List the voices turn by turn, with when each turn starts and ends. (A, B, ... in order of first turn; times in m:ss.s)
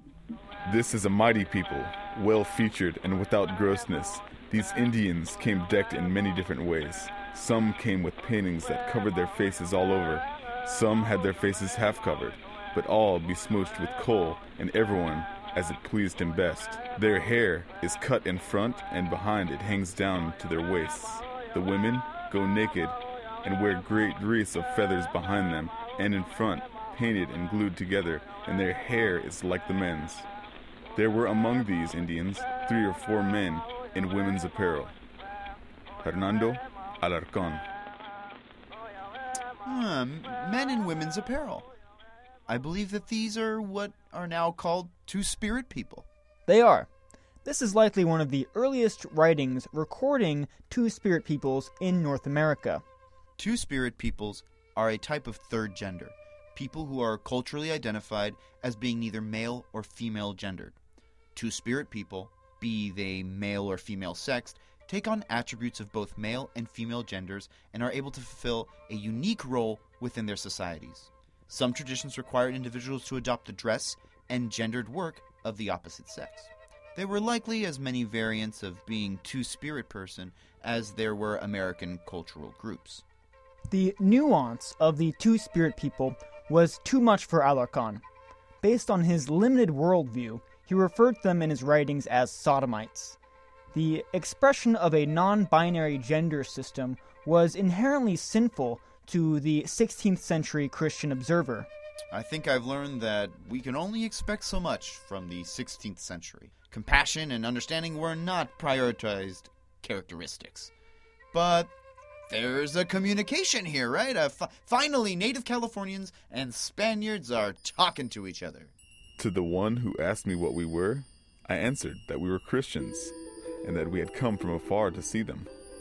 0:00.6-0:30.3 A
0:31.0-0:34.9 A
0:36.0-0:37.6 A
0:39.6-0:41.7 B
0:42.5-0:46.1 B
0:46.5-0:46.9 C
0:47.4-0:52.8 C
0:53.4-1:00.8 B
1:01.4-1:23.0 B
1:23.7-1:28.0 C
1:28.6-1:33.2 C
1:33.7-1:41.7 C
1:42.1-1:50.7 B
1:51.3-1:51.7 B
1:52.3-1:58.7 B
1:59.2-2:05.5 A